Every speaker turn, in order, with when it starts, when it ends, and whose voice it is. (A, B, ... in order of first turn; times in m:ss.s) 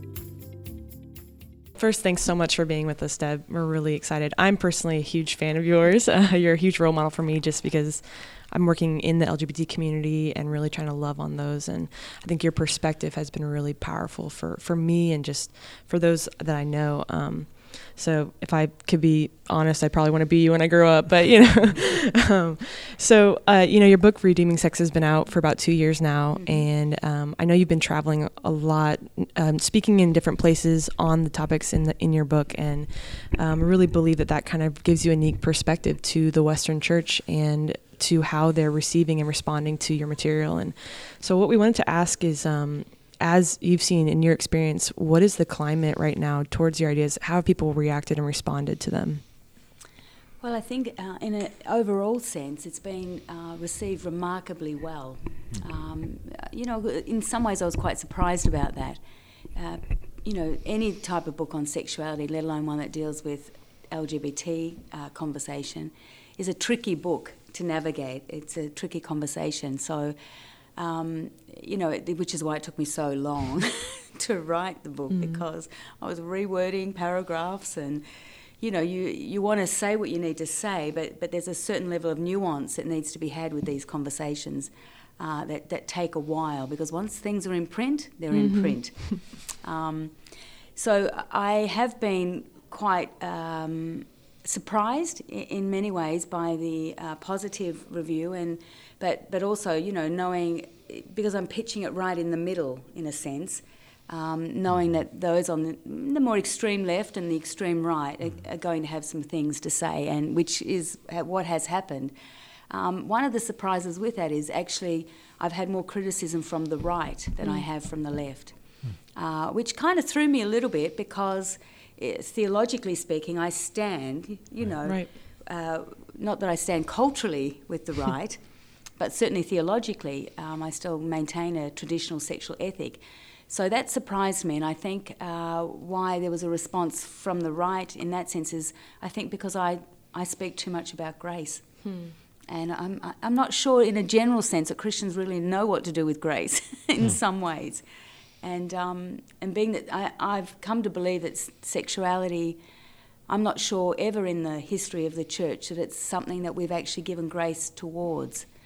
0:01.7-0:49.2 A
0:26.3-0:26.7 B
0:50.4-0:59.0 B
0:59.6-1:10.1 B
1:10.8-1:18.0 B
1:15.1-1:15.4 A
1:18.6-1:30.1 B
1:28.3-1:29.2 A
1:30.8-1:52.1 B
1:52.7-1:58.6 B
1:59.1-2:08.4 B
2:04.8-2:05.1 A
2:09.0-2:21.7 B
2:21.8-2:22.1 A
2:22.5-2:27.8 B
2:28.4-2:32.6 B
2:33.3-2:38.5 B